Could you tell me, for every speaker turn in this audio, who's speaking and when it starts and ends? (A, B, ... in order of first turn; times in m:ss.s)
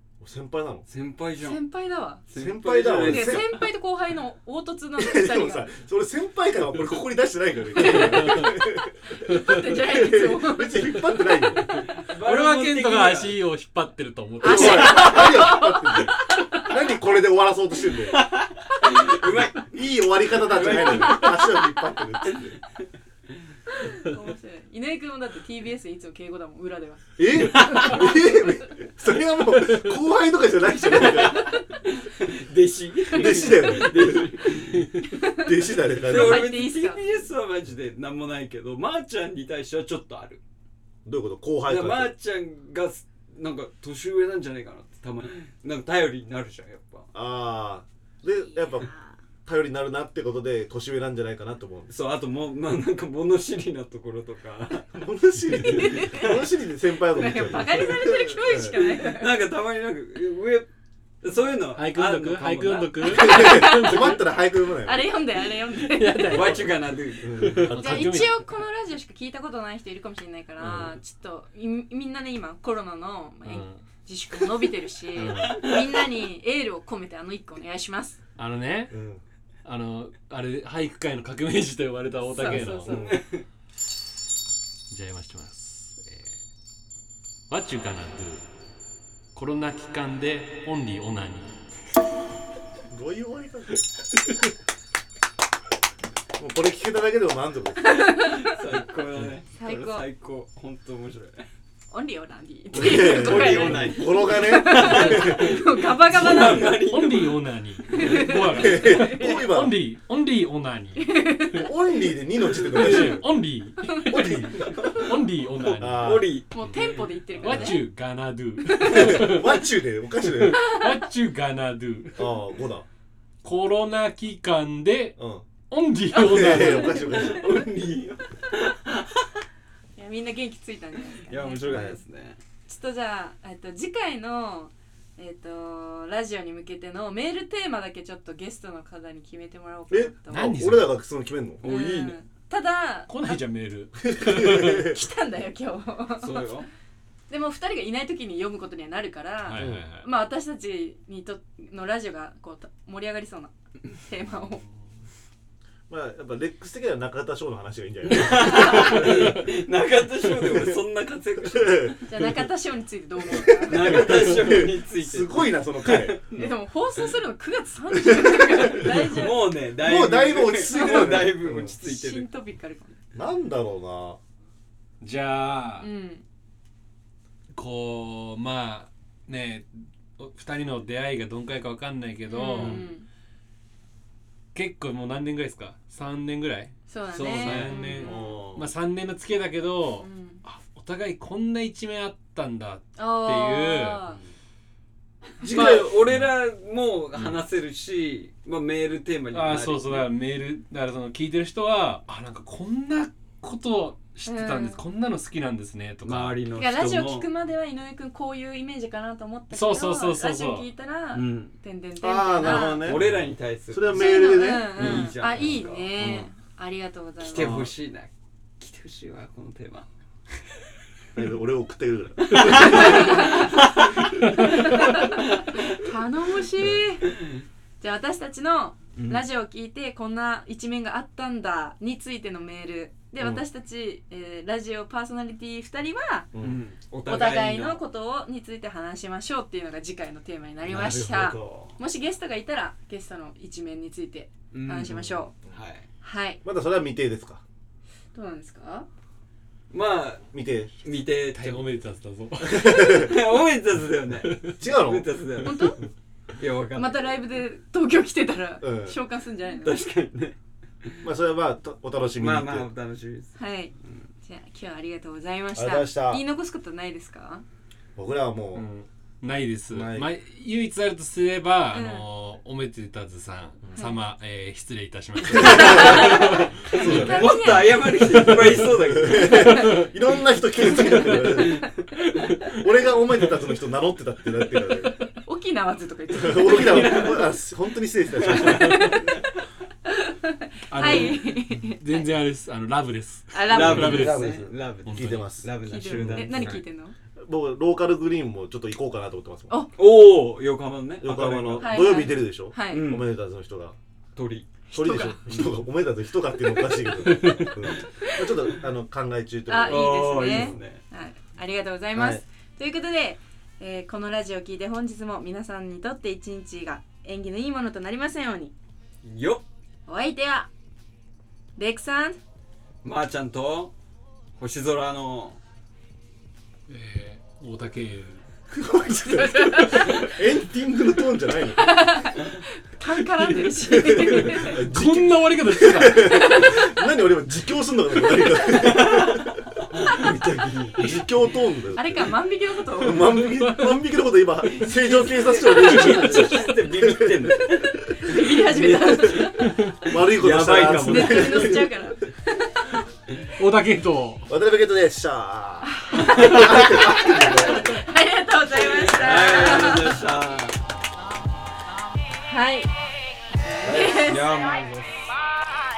0:00.2-0:00.8 A
0:00.9-0:01.6 B
0:01.4-0:02.2 C
0:02.3-0:03.6 B
0:02.4-0:03.6 A
0:03.0-0:05.7 C
0:05.0-0:11.8 A
0:07.7-0:11.1 C
0:08.1-0:08.5 D
0:11.6-0:15.6 D
0:11.9-0:13.4 B
0:14.4-0:16.7 C
0:14.4-0:18.3 A
0:18.1-0:19.7 B
0:19.1-0:22.6 A
0:20.4-0:21.2 B
0:20.6-0:22.4 C
0:23.7-0:27.0 C
0:27.2-0:31.5 A
0:27.4-0:28.0 B
0:27.6-0:28.5 C
0:29.6-0:29.9 D
0:30.9-0:31.6 C
0:30.9-0:35.1 B
0:33.1-0:34.5 A
0:33.1-0:34.2 C
0:35.0-0:37.3 C
0:35.2-0:36.5 A
0:35.7-0:40.4 B
0:41.0-0:42.1 A
0:41.7-0:47.1 B
0:47.1-0:48.9 A
0:48.5-0:49.1 C
0:49.5-0:51.9 A
0:51.9-0:55.0 B
0:54.9-0:58.8 A
0:55.6-0:56.4 C
0:55.8-0:56.4 B
0:57.0-0:59.4 C
0:59.0-1:00.7 B
1:01.2-1:03.0 B
1:01.7-1:04.3 D
1:03.0-1:06.6 C
1:03.1-1:05.2 A
1:05.7-1:06.8 D
1:06.3-1:07.6 B
1:07.2-1:08.3 A
1:07.4-1:08.4 D
1:07.7-1:18.2 C
1:10.6-1:10.9 A
1:13.4-1:13.8 D
1:15.1-1:15.7 D
1:18.4-1:19.0 D
1:18.9-1:19.2 A
1:19.6-1:23.1 D
1:22.1-1:23.2 C
1:22.8-1:23.4 B
1:22.9-1:23.2 A
1:24.9-1:26.3 D
1:27.5-1:28.4 D
1:29.4-1:31.6 D
1:32.9-1:33.8 A
1:36.4-1:38.0 A
1:37.8-1:38.6 C
1:38.2-1:41.5 B
1:39.5-1:40.1 C
1:41.9-1:47.0 C
1:42.7-1:45.6 A
1:42.8-1:47.3 B
1:46.1-1:51.7 D
1:46.2-1:46.5 A
1:47.9-1:49.5 C
1:48.5-1:49.8 A
1:51.0-1:51.7 C
1:51.6-1:53.3 A
1:52.6-1:59.7 D
1:52.8-1:53.1 C
1:53.8-1:54.5 C
1:54.1-1:55.0 A
1:54.8-1:55.0 B
1:55.6-1:57.7 B
1:55.8-1:56.3 A
1:56.5-1:57.8 C
1:58.8-2:00.6 A
2:00.2-2:02.4 D
2:00.6-2:00.9 C
2:02.2-2:02.9 A
2:03.4-2:05.2 D
2:05.2-2:05.4 A
2:05.7-2:07.1 D
2:06.1-2:07.4 C
2:06.2-2:07.6 A
2:07.0-2:09.3 B
2:10.0-2:12.0 C
2:11.3-2:12.4 B
2:11.7-2:12.0 A
2:12.6-2:20.6 C
2:19.9-2:21.6 A
2:20.3-2:21.0 D
2:21.6-2:22.2 B
2:21.6-2:23.4 C
2:23.1-2:24.9 D
2:24.0-2:25.0 A
2:24.4-2:26.5 C
2:26.2-2:26.7 B
2:27.3-2:34.6 C
2:29.4-2:30.1 D
2:29.6-2:29.8 A
2:35.9-2:39.0 A
2:38.1-2:42.0 B
2:38.4-2:39.1 C
2:38.9-2:39.2 D
2:40.4-2:40.7 A
2:41.5-2:42.3 A
2:42.0-2:44.3 C
2:43.3-2:46.2 A
2:43.7-2:46.5 B
2:46.3-2:49.5 C
2:48.0-2:49.0 A
2:49.1-2:52.3 B
2:49.8-2:51.7 A
2:50.7-2:53.0 C
2:53.2-2:54.2 A
2:55.0-2:55.9 D
2:55.8-2:56.2 C
2:57.5-3:02.9 D
3:02.3-3:03.1 C
3:02.6-3:02.9 B
3:04.5-3:14.0 D
3:06.9-3:08.4 C
3:07.2-3:07.8 B
3:08.0-3:08.7 A
3:10.0-3:10.4 C
3:13.0-3:14.2 C
3:15.4-3:15.9 A
3:15.4-3:20.1 B
3:15.6-3:16.3 D
3:19.3-3:26.4 D
3:24.3-3:24.8 C
3:26.0-3:27.3 B
3:26.6-3:33.0 C
3:29.5-3:30.7 D
3:31.1-3:31.6 B
3:32.0-3:33.0 A
3:32.6-3:35.9 B
3:32.8-3:33.3 D
3:33.7-3:35.1 A
3:33.9-3:37.5 C
3:36.0-3:36.3 A
3:37.2-3:39.9 B
3:37.4-3:37.7 A
3:41.2-3:43.4 A
3:42.3-3:44.0 B
3:42.4-3:43.6 C
3:44.4-3:47.1 C
3:44.9-3:45.8 B
3:47.0-3:47.4 B
3:47.8-3:56.3 C
3:49.0-3:49.2 B
3:56.4-3:57.8 B
3:57.1-4:05.3 C
4:00.6-4:01.8 B
4:00.7-4:01.0 A
4:04.5-4:05.9 B
4:06.0-4:06.4 C
4:06.4-4:07.4 A
4:08.1-4:08.9 C
4:09.7-4:10.3 B
4:10.3-4:10.8 A
4:10.8-4:11.6 B
4:11.3-4:13.1 D
4:12.4-4:13.1 A
4:12.9-4:15.8 B
4:14.2-4:14.6 D
4:14.6-4:15.1 A
4:15.4-4:15.8 C
4:16.4-4:17.2 B
4:16.8-4:19.8 C
4:18.6-4:19.0 A
4:19.5-4:21.0 B
4:21.0-4:22.7 A
4:22.2-4:23.4 B
4:23.4-4:27.4 C
4:25.5-4:26.2 A
4:28.0-4:28.6 A
4:28.6-4:37.1 D
4:29.7-4:30.1 A
4:31.7-4:32.1 C
4:35.3-4:37.7 A
4:35.3-4:38.4 C
4:36.8-4:39.6 B
4:38.6-4:41.7 A
4:40.6-4:42.4 B
4:42.4-4:45.0 A
4:45.1-4:47.3 C
4:46.2-4:49.1 A
4:46.5-4:47.3 B
4:48.1-4:49.0 B
4:48.3-4:49.2 C
4:49.9-4:52.1 C
4:50.7-4:54.3 D
4:50.7-4:51.2 B
4:53.3-4:54.3 C
4:53.5-4:56.6 B
4:53.5-4:56.5 A
4:54.8-4:55.4 D
4:55.6-4:57.0 C
4:57.2-4:59.6 A
4:59.8-5:02.0 B
5:01.0-5:03.8 A
5:01.6-5:03.0 C
5:02.7-5:03.1 B
5:04.2-5:04.5 B
5:04.7-5:05.3 C
5:04.7-5:10.6 A
5:06.7-5:07.3 C
5:07.0-5:07.6 D
5:08.0-5:08.5 C
5:09.5-5:18.5 C
5:09.7-5:10.8 B
5:12.0-5:12.2 A
5:19.0-5:19.4 B
5:19.9-5:20.5 C
5:21.6-5:22.2 C
5:22.8-5:23.7 B
5:24.4-5:25.4 B
5:26.7-5:28.2 D
5:28.5-5:31.7 A
5:29.0-5:30.1 C
5:29.2-5:30.1 D
5:31.4-5:34.6 C
5:33.7-5:36.4 D
5:33.7-5:39.3 A
5:36.0-5:36.7 C
5:38.4-5:41.0 B
5:40.8-5:42.1 A
5:41.7-5:43.3 C
5:42.8-5:48.1 A
5:43.2-5:43.8 D
5:44.6-5:51.6 B
5:44.6-5:46.5 C
5:45.7-5:46.2 D
5:47.7-5:49.5 C
5:49.4-5:49.8 D
5:49.8-5:51.8 A
5:50.7-5:52.8 C
5:53.4-5:54.3 D
5:54.3-5:57.8 A
5:55.6-6:00.0 C
5:55.9-5:57.0 B
5:58.5-6:00.6 B
6:02.2-6:02.7 C
6:03.4-6:04.6 C
6:03.6-6:04.2 A
6:03.9-6:05.1 B